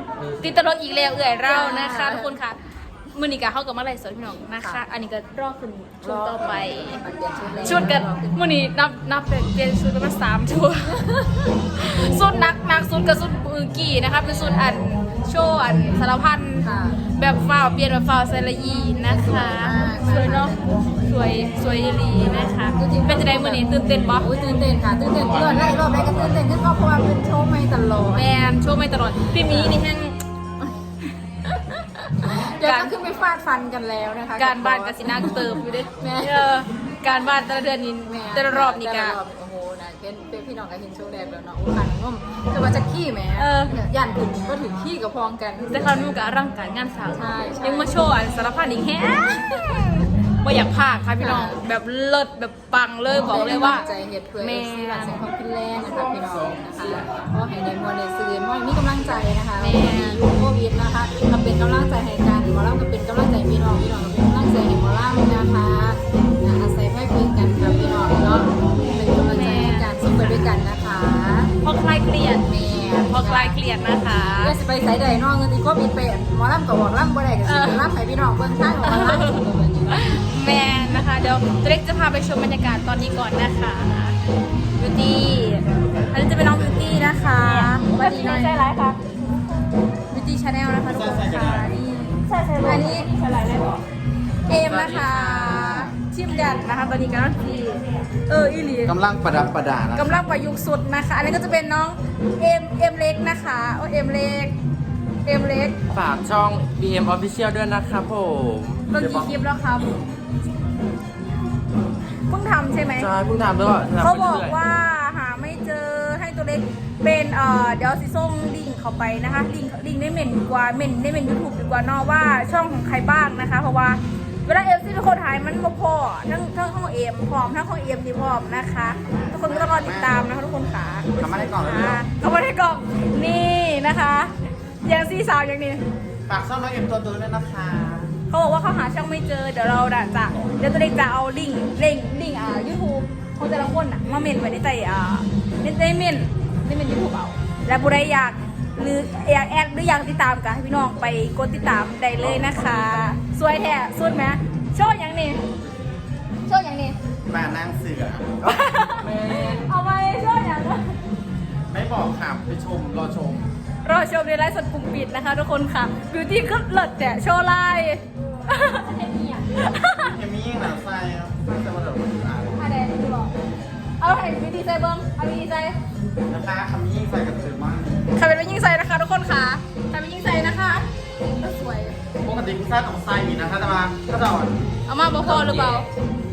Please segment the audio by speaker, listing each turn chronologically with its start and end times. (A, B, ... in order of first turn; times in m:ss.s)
0:00.2-0:00.5 A
0:00.4-0:07.0 B
0:01.5-0:02.4 C
0:04.6-0:04.9 C
0:06.0-0:08.5 C
0:07.6-0:24.3 B
0:16.6-0:17.0 C
0:19.1-0:20.8 C
0:22.8-0:28.2 C
0:28.1-0:30.2 B
0:29.4-0:29.8 C
0:31.5-0:33.0 B
0:32.2-0:36.6 C
0:34.4-0:39.2 B
0:38.1-0:46.0 C
0:43.4-0:43.9 B
0:45.7-0:53.9 B
0:47.1-0:47.9 C
0:51.2-0:51.6 C
0:53.1-1:11.5 C
0:54.4-0:55.2 B
0:55.8-0:57.1 A
0:59.6-1:00.2 B
1:09.1-1:10.5 B
1:11.6-1:12.5 B
1:12.5-1:13.6 C
1:13.1-1:14.6 B
1:14.4-1:20.1 C
1:17.4-1:17.9 B
1:18.8-1:24.2 B
1:24.8-1:28.6 B
1:25.7-1:27.0 D
1:27.4-1:29.7 E
1:30.1-1:33.1 B
1:30.8-1:31.7 D
1:32.2-1:33.8 E
1:34.5-1:39.0 B
1:34.7-1:35.9 D
1:35.1-1:35.6 A
1:38.9-1:40.2 D
1:39.9-1:44.6 B
1:45.3-1:45.8 B
1:45.9-1:49.3 A
1:48.9-1:50.0 B
1:52.3-1:53.1 B
1:53.0-1:54.6 A
1:54.0-2:15.8 B
2:09.0-2:10.3 D
2:11.2-2:12.1 D
2:16.3-2:18.1 D
2:18.3-2:35.4 B
2:32.2-2:32.9 A
2:36.5-2:37.0 B
2:37.3-2:38.4 D
2:38.4-2:39.7 A
2:38.4-2:41.0 B
2:41.7-2:42.6 D
2:42.5-2:43.4 A
2:43.8-2:49.0 B
2:48.8-2:49.5 E
2:49.5-2:50.2 B
2:49.7-2:52.6 D
2:52.6-2:53.3 B
2:54.0-2:55.8 B
2:56.3-2:58.1 D
2:58.2-3:02.0 B
3:02.2-3:04.6 D
3:04.9-3:05.9 B
3:05.2-3:05.8 D